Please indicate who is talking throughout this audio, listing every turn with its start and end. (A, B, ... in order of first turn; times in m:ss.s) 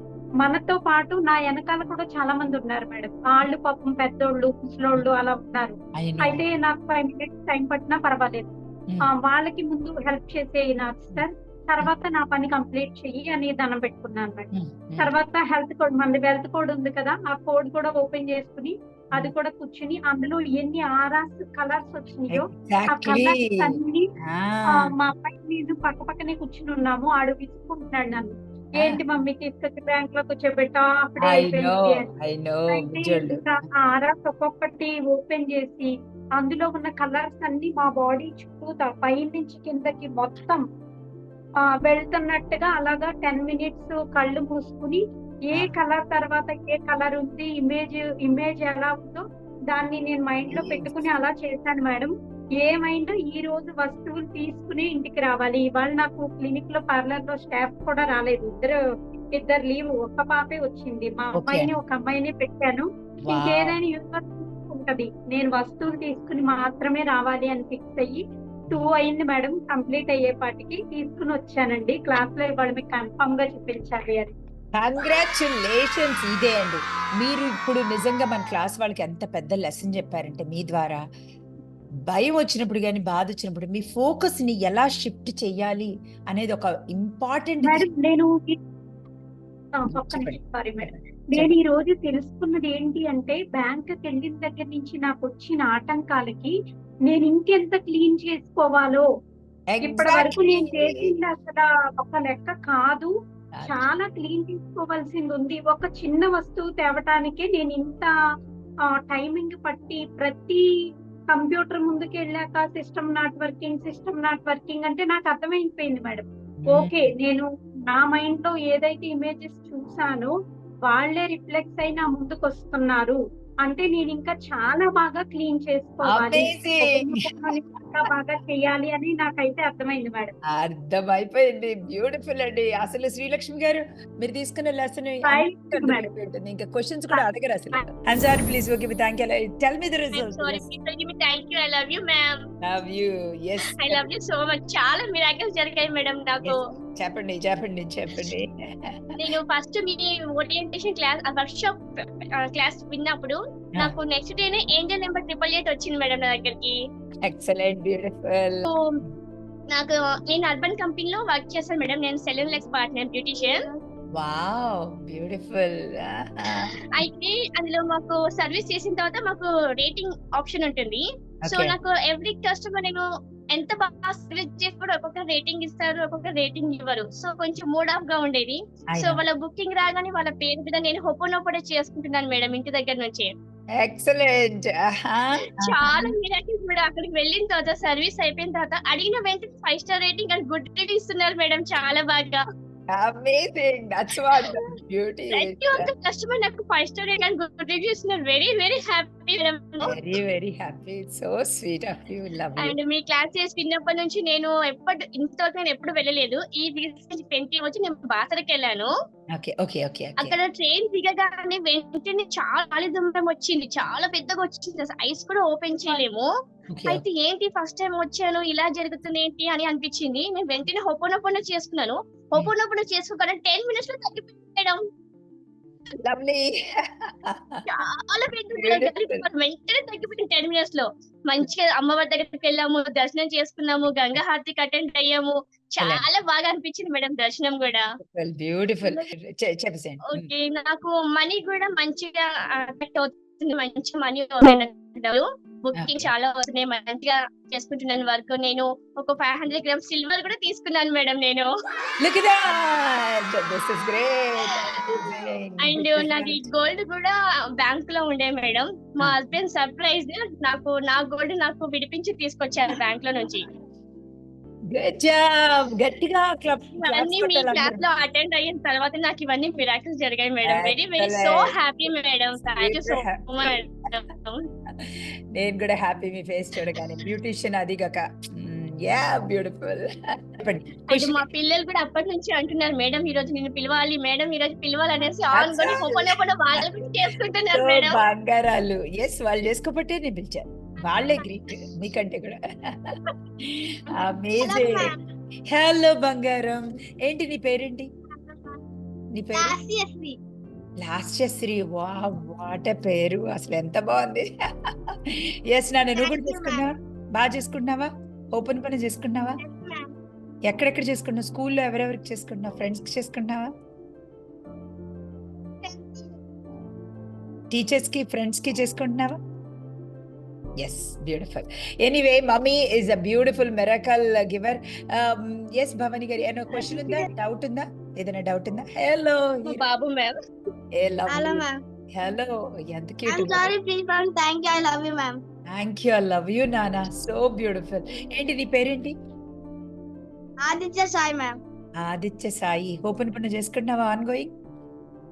0:00.4-0:24.1 A
0:06.0-0:06.4 B
0:14.5-0:15.1 B
0:22.3-0:23.8 B
0:24.3-0:24.9 B
0:24.8-0:32.1 A
0:31.2-0:33.6 B
0:32.7-0:40.6 A
0:41.8-0:58.7 A
0:50.5-0:51.1 B
0:59.3-1:14.3 A
1:01.4-1:01.8 B
1:03.2-1:03.8 B
1:14.8-1:21.0 B
1:22.1-1:27.9 B
1:27.6-1:28.6 A
1:29.8-1:36.5 A
1:29.9-1:31.5 B
1:37.1-1:39.0 A
1:39.7-1:41.1 B
1:39.8-1:43.1 A
1:43.6-1:43.9 B
1:43.6-1:48.1 A
1:49.0-1:50.6 A
1:51.3-2:00.3 A
1:56.6-1:57.1 B
2:00.9-2:10.3 A
2:06.1-2:07.5 B
2:10.5-2:20.6 B
2:15.2-2:16.1 A
2:17.1-2:17.9 A
2:20.2-2:22.3 C
2:22.6-2:24.1 B
2:23.8-2:26.5 C
2:26.4-2:29.0 B
2:29.2-2:36.8 C
2:37.2-2:39.2 B
2:39.7-2:43.6 C
2:44.2-2:47.0 B
2:47.0-3:03.3 C
2:51.4-2:51.8 B
2:58.9-2:59.2 B
3:03.8-3:06.1 B
3:05.6-3:12.4 C
3:12.9-3:15.9 B
3:15.4-3:20.0 C
3:19.8-3:22.8 B
3:22.6-3:28.9 C
3:29.4-3:30.4 B
3:30.2-3:36.3 C
3:36.7-3:37.0 B
3:36.9-3:44.8 C
3:46.0-3:46.6 B
3:47.3-3:47.6 B
3:47.7-3:57.8 C
3:48.6-3:49.3 B
3:58.0-4:00.3 B
4:00.2-4:11.5 C
4:05.8-4:06.1 B
4:12.0-4:16.5 B
4:15.6-4:23.4 C
4:24.7-4:27.8 B
4:26.8-4:34.4 C
4:30.4-4:31.5 B
4:32.5-4:33.6 B
4:34.8-4:41.3 B
4:40.9-4:48.0 C
4:45.3-4:46.6 B
4:47.5-4:55.0 B
4:54.4-4:55.0 D
4:55.5-4:57.9 B
4:58.1-4:58.6 D
4:59.1-4:59.6 B
4:59.4-5:00.2 D
5:00.8-5:04.3 B
5:04.9-5:09.4 B
5:06.0-5:06.7 D
5:09.4-5:09.9 D
5:10.5-5:13.5 B
5:15.6-5:16.2 D
5:17.5-5:19.2 B
5:20.6-5:29.6 B
5:29.4-5:30.1 C
5:30.8-5:33.5 B
5:31.1-5:31.6 D
5:33.1-5:35.2 D
5:35.5-5:39.0 B
5:40.4-5:41.4 D
5:41.8-5:44.3 B